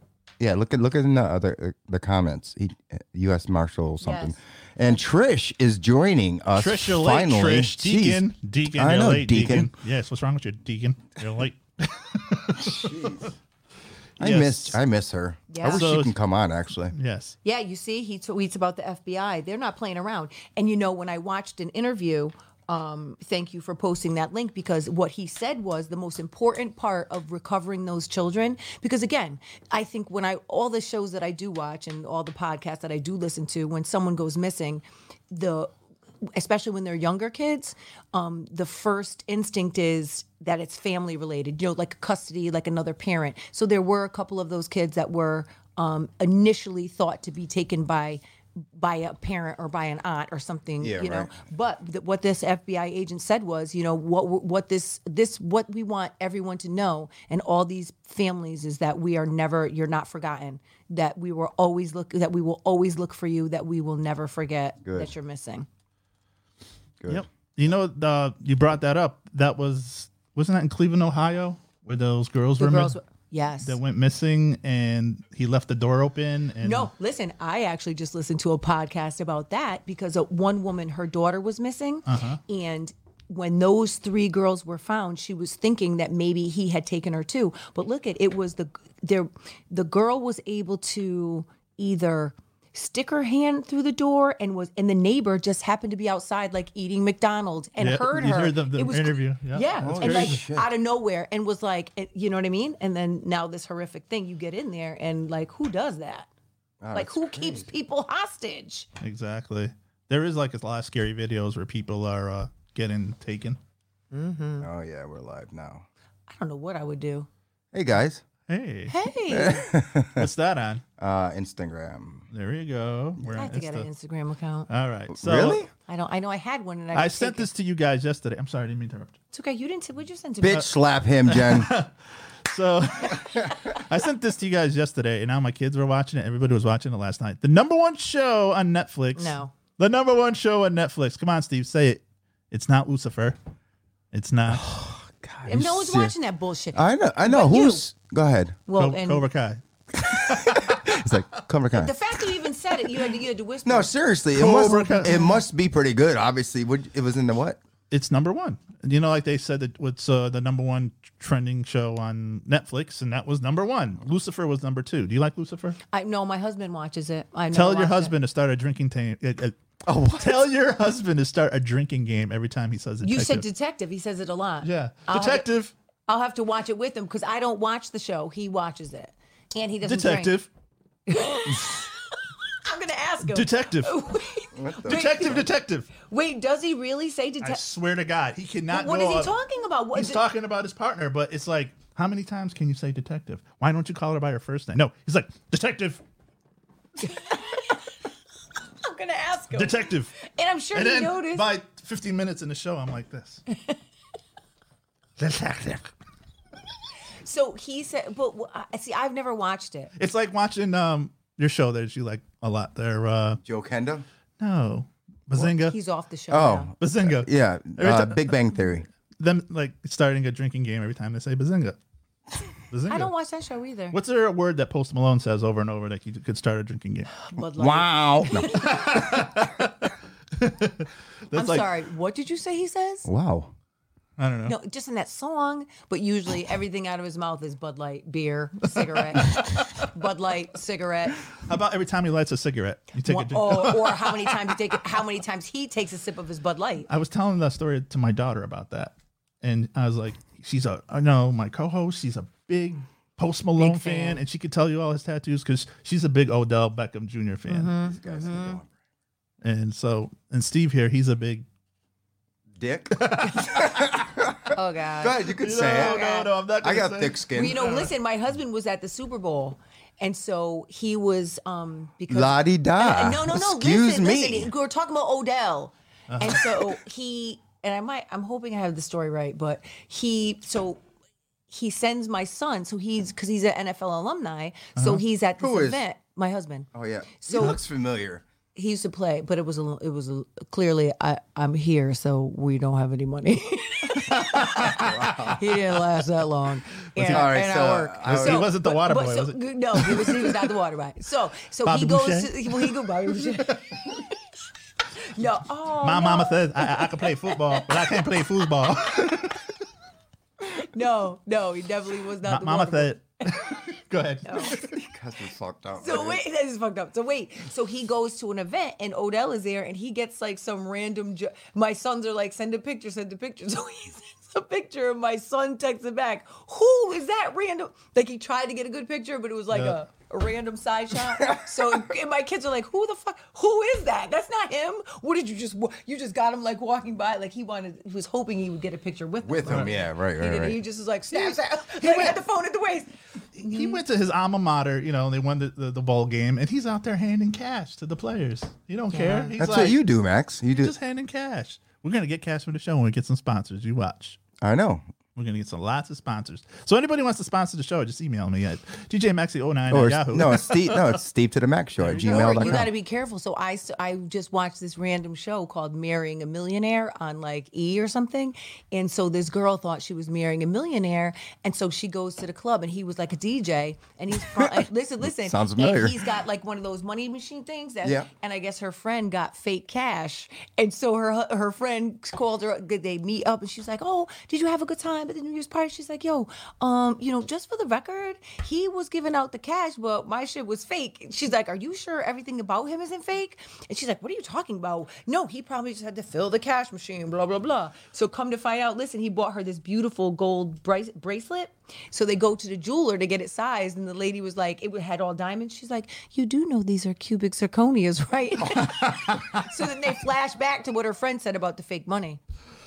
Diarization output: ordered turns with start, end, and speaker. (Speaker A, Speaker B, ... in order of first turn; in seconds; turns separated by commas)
Speaker A: 0.4-9.7, Speaker B: 4.0-4.3, Speaker C: 6.5-13.1, Speaker A: 12.6-13.3, Speaker C: 14.2-14.8, Speaker A: 14.2-16.9, Speaker B: 15.5-15.9, Speaker C: 15.7-16.1, Speaker C: 16.9-17.4, Speaker B: 17.4-35.7, Speaker B: 36.3-48.2, Speaker B: 48.7-65.7, Speaker A: 50.8-51.3, Speaker A: 64.8-65.1, Speaker C: 67.1-72.9, Speaker B: 72.6-73.8, Speaker C: 73.6-76.9, Speaker B: 76.6-106.3, Speaker C: 82.0-82.4, Speaker C: 97.8-100.4, Speaker A: 99.8-100.7, Speaker A: 106.8-107.7, Speaker B: 106.9-108.9, Speaker C: 109.0-113.6, Speaker B: 114.1-114.7, Speaker A: 114.6-115.8, Speaker B: 116.3-117.3, Speaker A: 117.7-118.2, Speaker C: 118.5-119.0, Speaker B: 118.9-119.7, Speaker A: 119.3-120.3, Speaker C: 120.1-120.8, Speaker A: 121.0-122.2, Speaker C: 122.3-123.9, Speaker B: 123.3-124.7, Speaker C: 124.7-125.6, Speaker A: 125.1-125.7, Speaker B: 125.8-127.5, Speaker C: 126.9-129.2, Speaker B: 129.3-130.7, Speaker A: 130.4-131.7, Speaker C: 131.2-131.9, Speaker C: 132.4-143.4, Speaker B: 139.1-139.5, Speaker C: 144.1-144.7, Speaker A: 144.5-146.1, Speaker B: 145.4-147.8, Speaker A: 146.7-148.6, Speaker B: 148.7-149.2, Speaker C: 148.8-150.8, Speaker A: 149.9-151.9, Speaker B: 151.7-153.9, Speaker A: 153.6-157.6, Speaker C: 154.3-155.4, Speaker B: 154.5-155.3, Speaker C: 157.9-165.8, Speaker B: 165.9-168.1, Speaker C: 167.5-169.6, Speaker A: 169.8-170.4, Speaker C: 170.1-173.4, Speaker B: 173.0-175.5, Speaker C: 174.6-175.7, Speaker B: 176.1-180.3, Speaker C: 179.8-180.5, Speaker B: 181.1-187.6, Speaker C: 183.3-184.0, Speaker A: 184.5-185.5, Speaker C: 184.8-185.9, Speaker C: 187.4-189.3, Speaker B: 188.7-190.2, Speaker C: 189.9-196.0, Speaker B: 197.0-197.9, Speaker B: 198.8-201.5, Speaker C: 199.5-203.4, Speaker C: 205.2-205.9, Speaker B: 207.2-209.9, Speaker C: 210.0-213.4, Speaker A: 213.4-214.1, Speaker C: 214.4-215.8, Speaker B: 215.3-216.7, Speaker A: 216.3-218.9, Speaker C: 216.8-218.6, Speaker C: 219.2-221.8, Speaker C: 222.7-223.1, Speaker B: 222.9-224.0, Speaker C: 223.9-227.1, Speaker B: 227.2-229.0, Speaker A: 227.5-228.6, Speaker C: 228.4-231.7, Speaker B: 231.3-233.1, Speaker A: 233.0-233.5, Speaker C: 234.2-234.6, Speaker B: 234.4-241.2, Speaker C: 239.1-239.6, Speaker C: 241.3-244.6, Speaker B: 243.1-246.9, Speaker C: 246.9-257.7, Speaker B: 253.6-254.2, Speaker B: 257.5-258.6, Speaker A: 257.8-258.7, Speaker C: 259.4-261.4, Speaker A: 262.6-266.1, Speaker C: 262.9-263.9, Speaker B: 264.5-266.3, Speaker C: 265.4-267.9, Speaker A: 266.6-267.7, Speaker B: 267.3-280.8, Speaker A: 272.1-274.5, Speaker C: 276.1-276.6, Speaker B: 281.5-286.7, Speaker C: 284.8-285.0, Speaker A: 285.4-285.8, Speaker A: 286.7-288.2, Speaker B: 287.2-287.6, Speaker B: 288.5-304.2, Speaker C: 294.2-295.3, Speaker A: 294.6-295.4, Speaker C: 297.0-297.3, Speaker A: 297.0-298.5, Speaker C: 298.0-300.5, Speaker C: 301.6-302.8, Speaker B: 304.9-308.0, Speaker C: 305.8-309.5, Speaker B: 310.4-313.6, Speaker C: 312.2-314.7, Speaker B: 314.2-314.6, Speaker A: 314.4-316.2, Speaker B: 315.8-343.8, Speaker C: 329.5-329.8, Speaker A: 331.2-331.6, Speaker A: 339.2-340.6, Speaker C: 341.2-342.2, Speaker C: 343.4-349.8, Speaker B: 348.9-349.3, Speaker A: 349.4-350.7, Speaker C: 350.5-354.2, Speaker A: 354.4-354.8, Speaker C: 355.1-361.0, Speaker A: 359.7-362.7, Speaker C: 361.8-362.7, Speaker B: 362.0-412.2, Speaker A: 375.0-376.0, Speaker C: 408.6-409.2